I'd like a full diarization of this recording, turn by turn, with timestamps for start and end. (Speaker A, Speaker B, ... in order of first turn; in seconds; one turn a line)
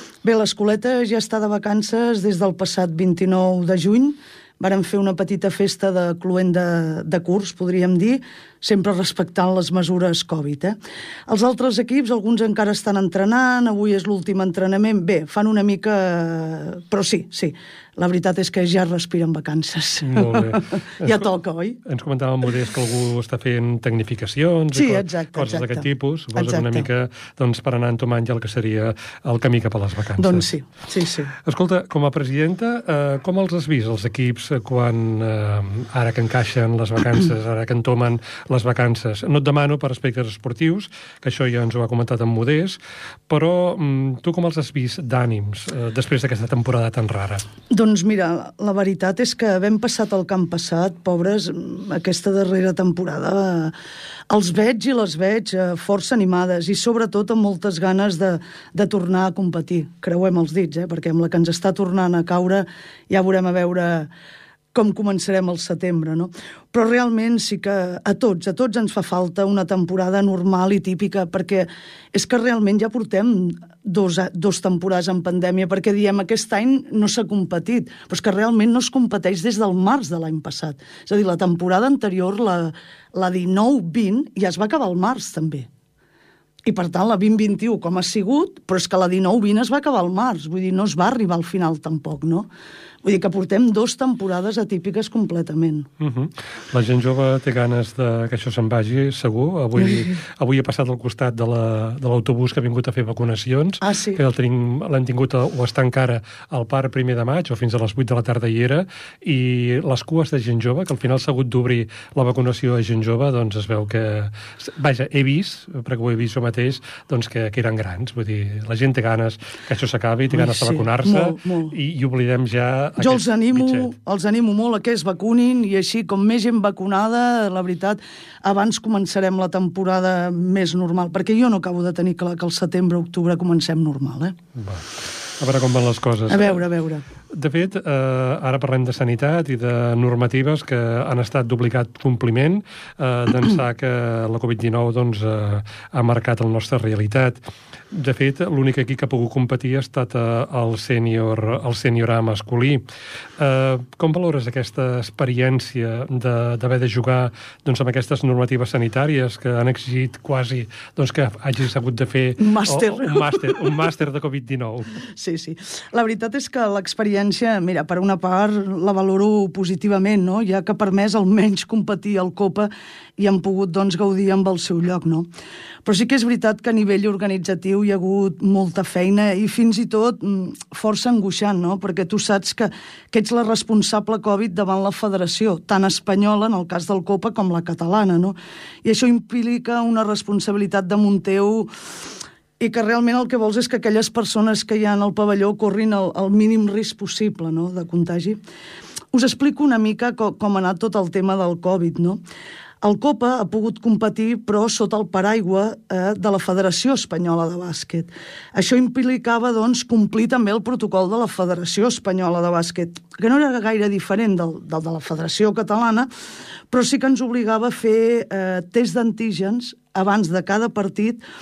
Speaker A: 0.2-21.8
Speaker B: 20.0-21.2
Speaker B: 21.8-30.4
Speaker A: 24.7-26.9
Speaker A: 30.2-31.3
Speaker B: 31.4-47.4
Speaker A: 47.7-53.7
Speaker A: 54.3-64.1
Speaker A: 64.7-85.7
Speaker A: 86.6-92.5
Speaker A: 93.0-95.9
Speaker B: 96.0-123.9
Speaker A: 103.8-104.2
Speaker A: 120.3-121.7
Speaker A: 123.0-134.3
Speaker B: 134.6-136.6
Speaker A: 136.3-137.0
Speaker B: 137.3-147.4
Speaker B: 147.9-152.8
Speaker B: 153.4-165.0
Speaker A: 162.4-163.5
Speaker A: 165.2-175.3
Speaker A: 175.8-191.7
Speaker A: 192.6-198.4
Speaker A: 199.1-202.2
Speaker A: 202.8-216.1
Speaker A: 216.7-221.2